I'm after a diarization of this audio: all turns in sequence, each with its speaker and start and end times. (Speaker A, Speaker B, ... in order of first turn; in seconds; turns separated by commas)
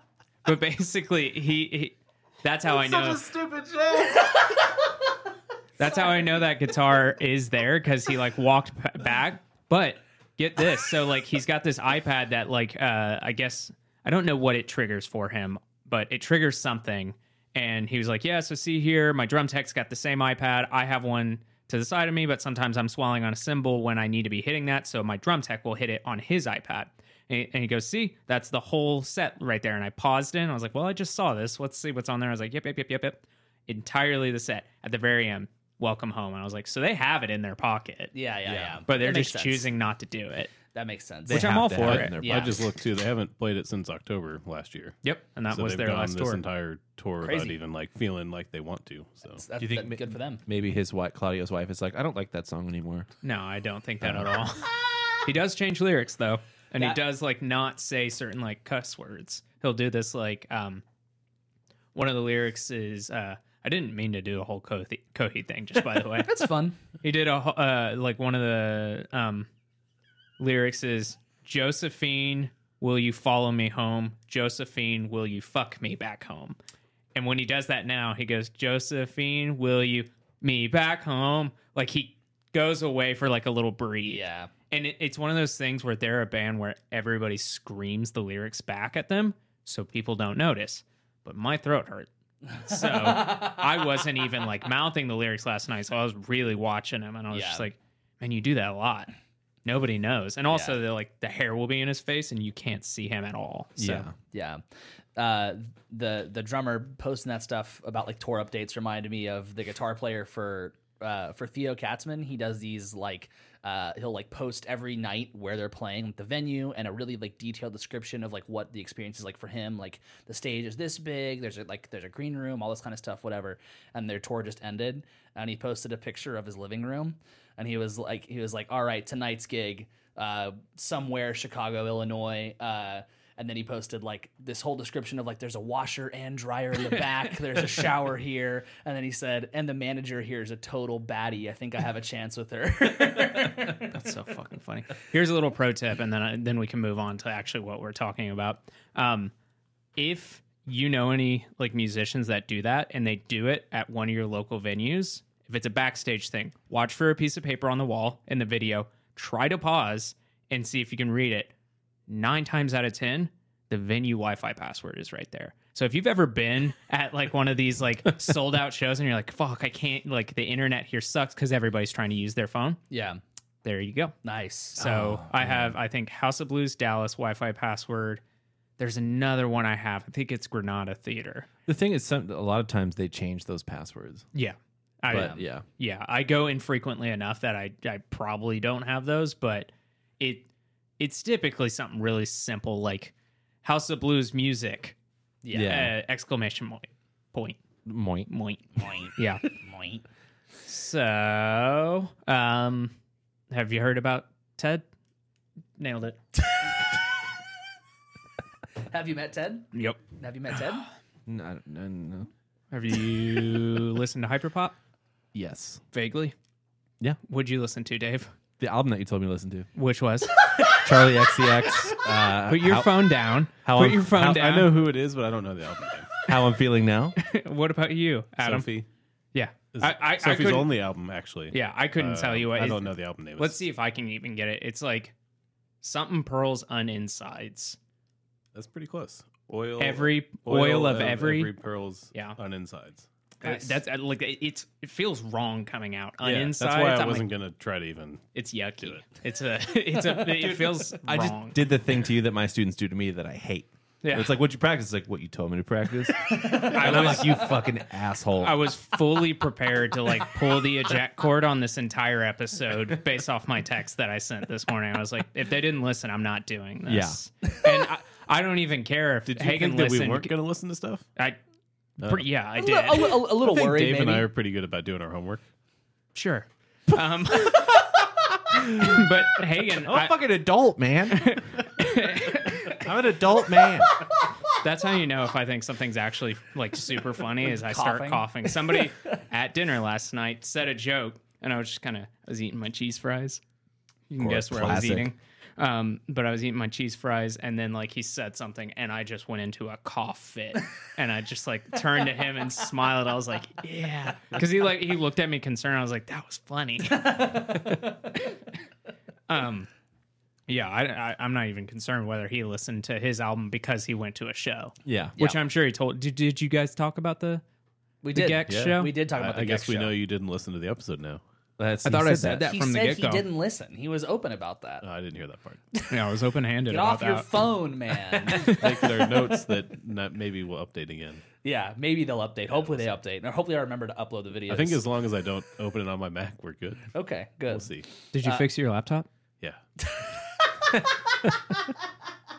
Speaker A: 0.4-3.3, Speaker B: 2.7-4.3, Speaker A: 5.8-38.1, Speaker C: 38.1-39.7, Speaker B: 38.5-38.8, Speaker A: 38.9-40.5, Speaker C: 40.7-41.5, Speaker B: 41.2-42.7, Speaker A: 41.3-42.1, Speaker D: 41.8-45.0, Speaker C: 42.1-42.6, Speaker A: 45.0-46.4, Speaker D: 45.5-49.4, Speaker C: 47.2-47.6, Speaker C: 49.3-50.4, Speaker B: 49.6-53.1, Speaker A: 53.2-60.8, Speaker B: 54.0-54.3, Speaker A: 61.9-66.4, Speaker C: 66.2-66.8, Speaker A: 67.0-69.5, Speaker A: 70.4-76.6, Speaker A: 77.1-99.1, Speaker C: 84.0-84.5, Speaker C: 92.7-93.9, Speaker C: 97.3-97.7, Speaker A: 99.6-104.1, Speaker C: 100.5-100.8, Speaker B: 103.8-104.1, Speaker C: 104.3-104.6, Speaker C: 105.2-143.9, Speaker A: 143.8-149.3, Speaker A: 149.9-161.5, Speaker A: 162.1-172.8, Speaker C: 172.9-173.2, Speaker A: 173.6-174.1, Speaker C: 174.2-174.9, Speaker A: 174.8-178.2, Speaker B: 174.9-175.7, Speaker A: 178.8-181.5, Speaker B: 181.7-184.3, Speaker A: 184.3-190.5, Speaker B: 185.1-185.6, Speaker C: 185.1-185.4, Speaker A: 191.0-194.9, Speaker C: 195.4-195.9, Speaker B: 195.5-195.9, Speaker A: 195.6-197.6, Speaker B: 197.8-198.3, Speaker A: 198.3-198.6, Speaker C: 198.8-200.0, Speaker A: 199.1-199.4, Speaker A: 200.7-202.9, Speaker A: 203.5-204.8, Speaker A: 205.8-206.2, Speaker C: 208.8-210.9, Speaker A: 209.7-210.0, Speaker B: 211.2-212.3, Speaker A: 212.7-214.8, Speaker B: 215.3-215.8, Speaker A: 215.9-216.3, Speaker A: 217.2-218.3, Speaker B: 218.6-219.7, Speaker A: 219.7-220.4, Speaker C: 220.6-221.9, Speaker B: 220.7-224.7, Speaker A: 222.4-224.7, Speaker D: 224.2-226.1, Speaker B: 226.2-227.2, Speaker A: 227.2-228.7, Speaker D: 228.4-228.9, Speaker A: 229.3-230.7, Speaker D: 229.7-233.6, Speaker A: 231.5-235.1, Speaker A: 235.8-237.8, Speaker D: 238.5-243.1, Speaker A: 239.8-241.5, Speaker A: 242.1-242.4, Speaker A: 243.4-247.3, Speaker C: 243.4-243.7, Speaker B: 246.2-246.5, Speaker D: 246.6-248.3, Speaker A: 248.3-251.6, Speaker B: 250.2-258.6, Speaker A: 254.0-254.3, Speaker C: 256.3-257.3, Speaker A: 256.7-257.5, Speaker A: 258.4-270.3, Speaker B: 266.9-267.2, Speaker D: 269.3-271.1, Speaker A: 272.0-273.1, Speaker C: 272.6-274.3, Speaker D: 273.2-275.4, Speaker A: 276.1-277.7, Speaker B: 277.4-279.1, Speaker A: 278.8-280.2, Speaker B: 279.8-281.8, Speaker A: 281.1-282.9, Speaker B: 282.6-284.1, Speaker A: 284.6-293.4, Speaker C: 287.5-288.8, Speaker A: 294.1-307.6, Speaker B: 294.2-295.1, Speaker C: 306.9-308.1, Speaker A: 309.3-309.7, Speaker A: 310.5-317.4, Speaker B: 314.8-315.1, Speaker C: 318.0-319.9, Speaker A: 318.1-318.9, Speaker D: 319.1-321.2, Speaker B: 321.6-322.9, Speaker A: 321.8-323.2, Speaker C: 322.4-324.8, Speaker D: 324.8-325.6, Speaker A: 325.9-327.4, Speaker C: 326.7-329.0, Speaker A: 328.1-329.0, Speaker D: 328.4-331.2, Speaker C: 331.4-334.8, Speaker D: 332.5-332.8, Speaker D: 334.5-336.9, Speaker C: 336.9-338.4, Speaker D: 337.5-337.9, Speaker A: 338.1-339.1, Speaker C: 339.8-341.5